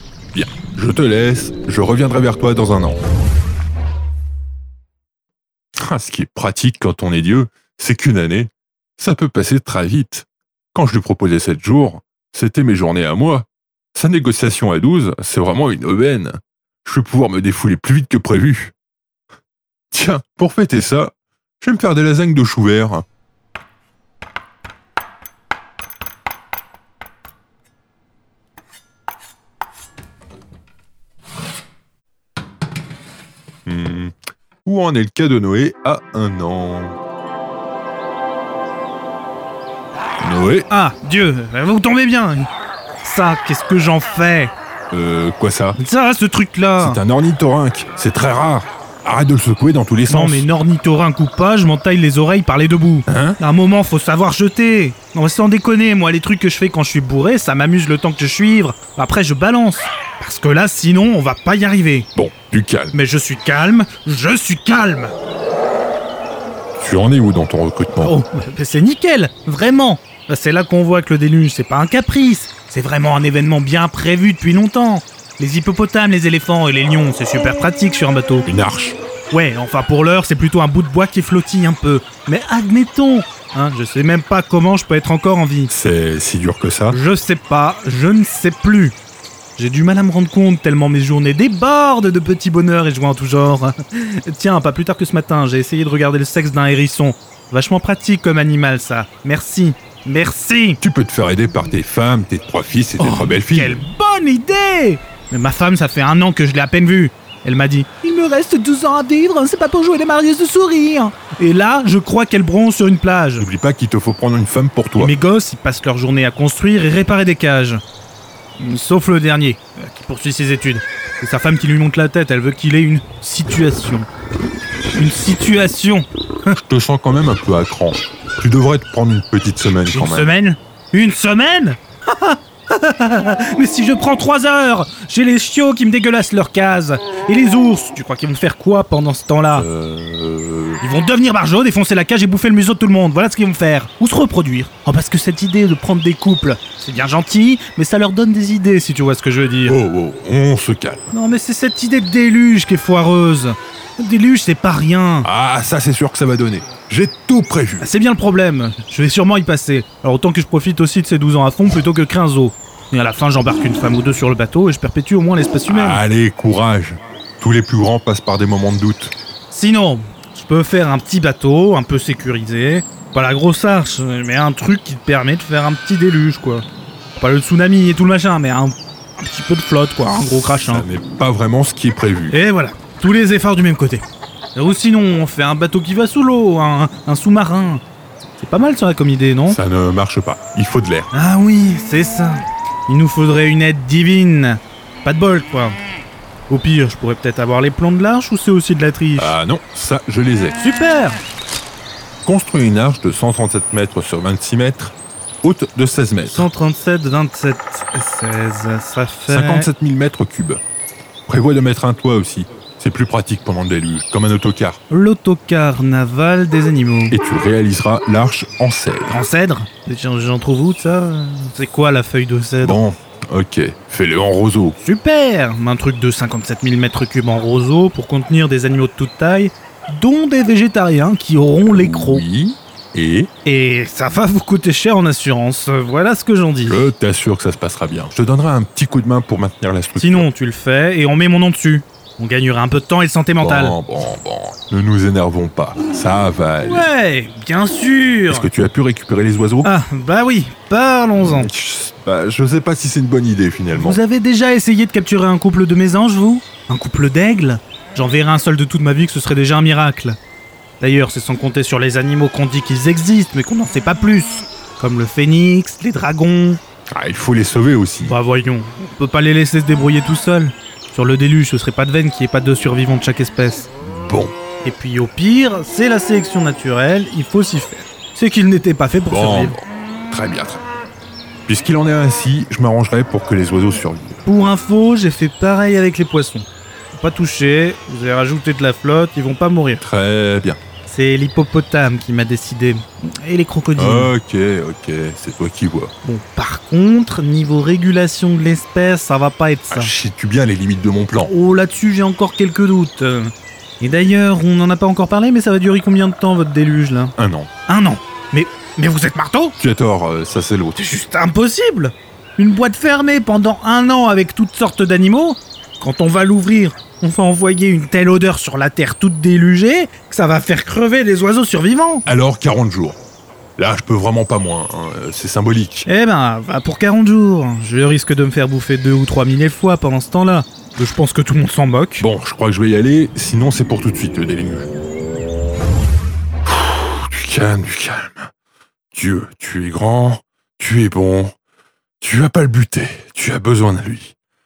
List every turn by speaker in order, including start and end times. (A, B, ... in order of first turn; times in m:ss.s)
0:00.3-0:03.0 A
0:05.8-0:18.7 A
0:19.9-0:23.0 A
0:33.6-0:37.0 A
0:40.2-0:40.7 A
0:40.7-0:42.5 B
0:43.0-0:44.5 B
0:44.9-0:45.8 A
0:45.8-0:47.0 B
0:46.8-0:50.4 A
0:50.1-1:02.1 B
0:53.1-0:53.4 A
1:02.2-1:02.9 A
1:02.9-1:05.1 B
1:06.8-1:08.1 A
1:08.0-1:18.5 B
1:18.5-1:19.0 A
1:19.3-1:25.7 B
1:25.7-1:27.0 A
1:26.9-1:29.0 B
1:29.6-1:40.8 B
1:40.8-1:43.8 A
1:43.0-1:53.5 B
1:53.4-1:55.1 A
1:55.0-1:57.8 B
1:58.6-2:04.1 B
2:04.9-2:06.1 B
2:06.5-2:10.3 A
2:09.8-2:19.7 B
2:19.5-2:20.8 A
2:20.8-2:29.8 B
2:29.6-2:31.1 A
2:31.1-2:35.3 B
2:35.2-2:37.9 A
2:37.8-2:46.0 B
2:45.7-2:49.1 A
2:49.5-2:56.6 B
2:57.2-3:00.9 B
3:00.6-3:02.4 A
3:02.3-3:07.8 B
3:08.4-3:09.6 B
3:09.5-3:11.1 A
3:11.1-3:15.8 B
3:16.5-3:19.4 B
3:19.2-3:20.6 A
3:20.6-3:21.2 B
3:22.2-3:26.5 A
3:26.2-3:29.7 B
3:29.3-3:30.6 A
3:31.3-3:34.8 A
3:34.9-3:37.2 B
3:37.1-3:39.2 A
3:39.1-3:42.8 B
3:42.6-3:44.8 A
3:44.8-3:52.2 B
3:51.7-3:53.3 A
3:53.4-3:56.8 B
3:56.6-4:00.3 A
4:00.0-4:03.8 B
4:03.4-4:06.9 A
4:06.6-4:08.5 B
4:08.3-4:09.7 A
4:09.6-4:11.5 B
4:11.2-4:14.0 A
4:13.7-4:20.2 B
4:20.8-4:26.6 B
4:26.9-4:28.1 A
4:28.0-4:33.7 B
4:33.8-4:34.3 A
4:34.6-4:39.6 B
4:39.1-4:40.6 A
4:41.5-4:44.2 A
4:44.2-4:49.8 B
4:49.8-4:50.6 A
4:50.8-4:54.1 B
4:53.8-4:55.9 A
4:56.0-4:59.9 B
4:59.7-5:01.3 A
5:01.3-5:07.1 B
5:07.2-5:07.5 A
5:07.7-5:09.5 B
5:09.6-5:10.8 A
5:10.8-5:22.0 B
5:22.0-5:23.0 A
5:23.6-5:25.9 A
5:25.9-5:32.1 B
5:32.0-5:34.7 A
5:36.4-5:38.3 A
5:38.9-5:41.3 A
5:42.0-5:44.1 A